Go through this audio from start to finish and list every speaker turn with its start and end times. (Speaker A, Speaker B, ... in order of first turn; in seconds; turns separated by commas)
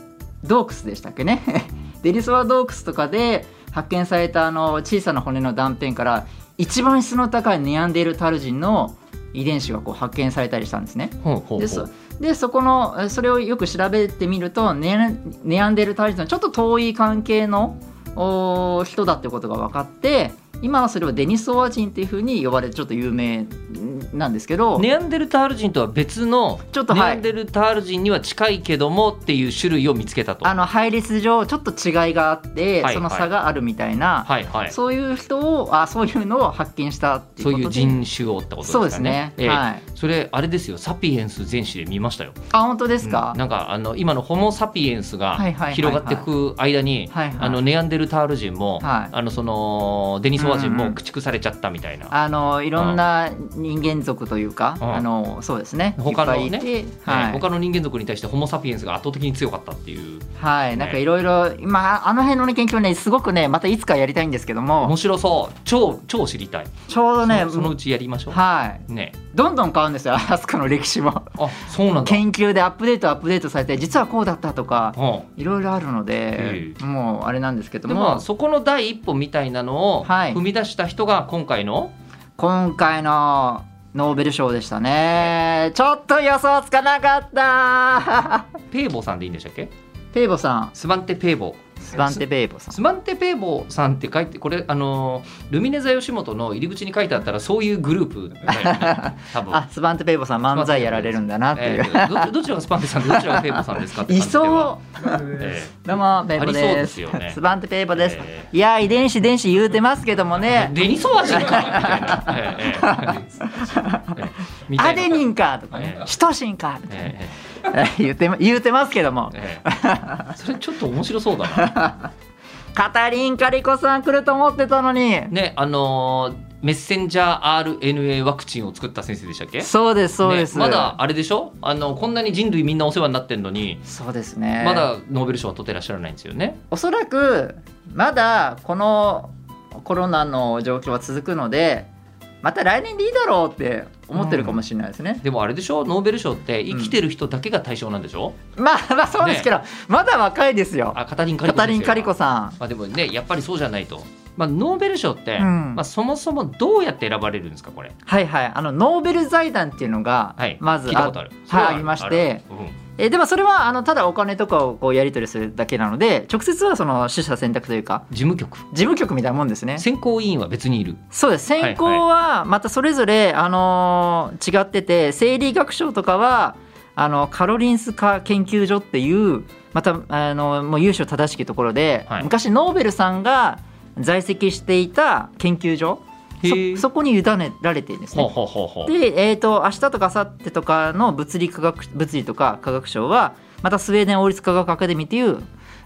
Speaker A: 0.4-24.9, Speaker B: 11.2-11.9, Speaker B: 24.8-30.5, Speaker A: 26.7-27.2, Speaker A: 30.4-38.0, Speaker B: 32.8-33.3, Speaker B: 34.3-34.8, Speaker B: 37.4-42.4, Speaker A: 38.6-39.8, Speaker A: 42.5-43.4, Speaker B: 43.0-52.1, Speaker A: 45.4-46.3, Speaker A: 47.1-47.6, Speaker A: 48.8-49.1, Speaker A: 50.4-51.0, Speaker A: 52.1-57.4, Speaker B: 56.0-61.0, Speaker A: 60.4-64.9, Speaker B: 64.8-66.7, Speaker A: 66.9-67.7, Speaker B: 67.2-69.2, Speaker A: 68.3-71.4, Speaker B: 71.4-72.2, Speaker A: 72.0-78.2, Speaker B: 75.0-75.3, Speaker B: 76.4-76.8, Speaker B: 77.9-81.9, Speaker A: 80.0-80.4, Speaker A: 82.4-88.5, Speaker B: 88.7-89.7, Speaker A: 90.1-90.8, Speaker B: 90.8-99.6, Speaker A: 91.9-92.8, Speaker A: 98.5-102.3, Speaker B: 100.5-105.8, Speaker A: 103.0-110.8, Speaker B: 106.4-107.4, Speaker B: 108.0-108.5, Speaker B: 110.5-113.5, Speaker A: 111.3-117.2, Speaker B: 114.2-116.1, Speaker B: 116.9-117.3, Speaker A: 117.7-120.3, Speaker B: 119.3-119.6, Speaker B: 120.4-121.7, Speaker A: 121.5-122.1, Speaker A: 122.8-125.3, Speaker B: 125.3-129.7, Speaker A: 129.6-131.0, Speaker B: 130.2-133.8, Speaker A: 133.9-134.9, Speaker B: 134.6-136.6, Speaker A: 136.7-141.9, Speaker A: 142.4-145.2, Speaker B: 144.2-144.6, Speaker B: 145.2-148.4, Speaker A: 148.6-152.6, Speaker B: 149.2-149.5, Speaker B: 150.9-157.9, Speaker A: 155.4-155.8, Speaker A: 158.1-162.4, Speaker B: 160.4-162.8, Speaker A: 163.0-168.1, Speaker B: 168.1-168.7, Speaker A: 168.7-169.8, Speaker B: 169.8-171.0, Speaker A: 171.1-188.3, Speaker B: 171.6-172.0, Speaker B: 186.4-186.8, Speaker B: 188.1-188.9, Speaker A: 188.9-195.4